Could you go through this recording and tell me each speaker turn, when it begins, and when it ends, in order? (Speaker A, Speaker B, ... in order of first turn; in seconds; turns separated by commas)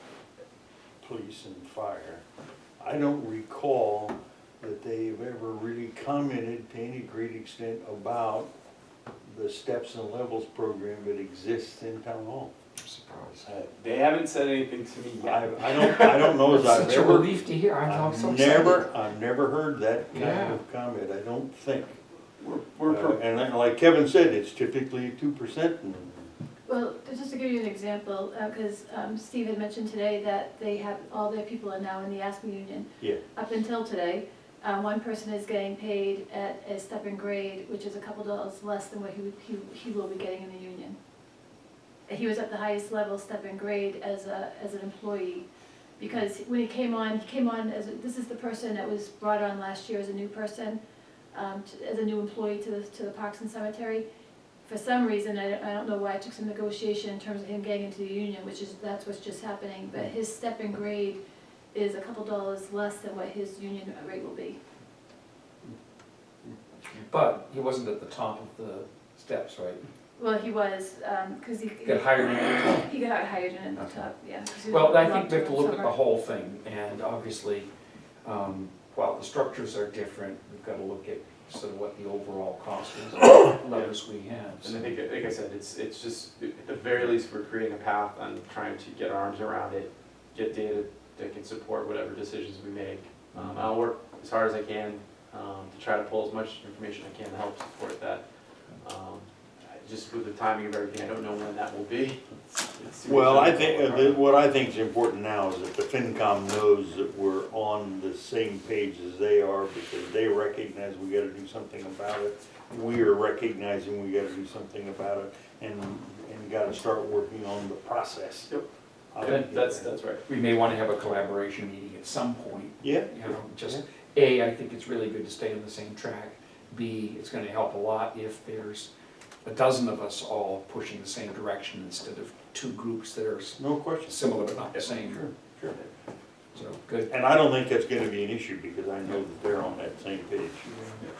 Speaker A: 1.0-2.2, Speaker A: 2.8-8.5, Speaker A: 9.2-12.5, Speaker B: 12.8-13.4, Speaker C: 13.5-16.4, Speaker A: 15.2-22.0, Speaker B: 16.5-18.9, Speaker B: 20.1-20.6, Speaker C: 22.4-23.2, Speaker A: 22.8-26.3, Speaker D: 26.7-40.9, Speaker D: 42.1-45.4, Speaker D: 46.0-50.7, Speaker D: 51.4-54.0, Speaker D: 54.7-61.1, Speaker D: 61.7-64.5, Speaker B: 67.0-69.9, Speaker D: 70.2-75.9, Speaker B: 71.8-72.9, Speaker B: 73.8-77.7, Speaker B: 78.2-85.0, Speaker C: 84.6-98.2, Speaker B: 93.3-93.6, Speaker C: 98.8-104.2, Speaker A: 103.0-118.5, Speaker A: 119.1-119.9, Speaker C: 119.2-120.2, Speaker B: 119.2-119.7, Speaker B: 120.2-128.9, Speaker A: 122.8-123.8, Speaker B: 129.4-135.3, Speaker A: 133.6-135.8, Speaker B: 136.5-137.1, Speaker A: 137.1-140.7, Speaker B: 140.7-141.0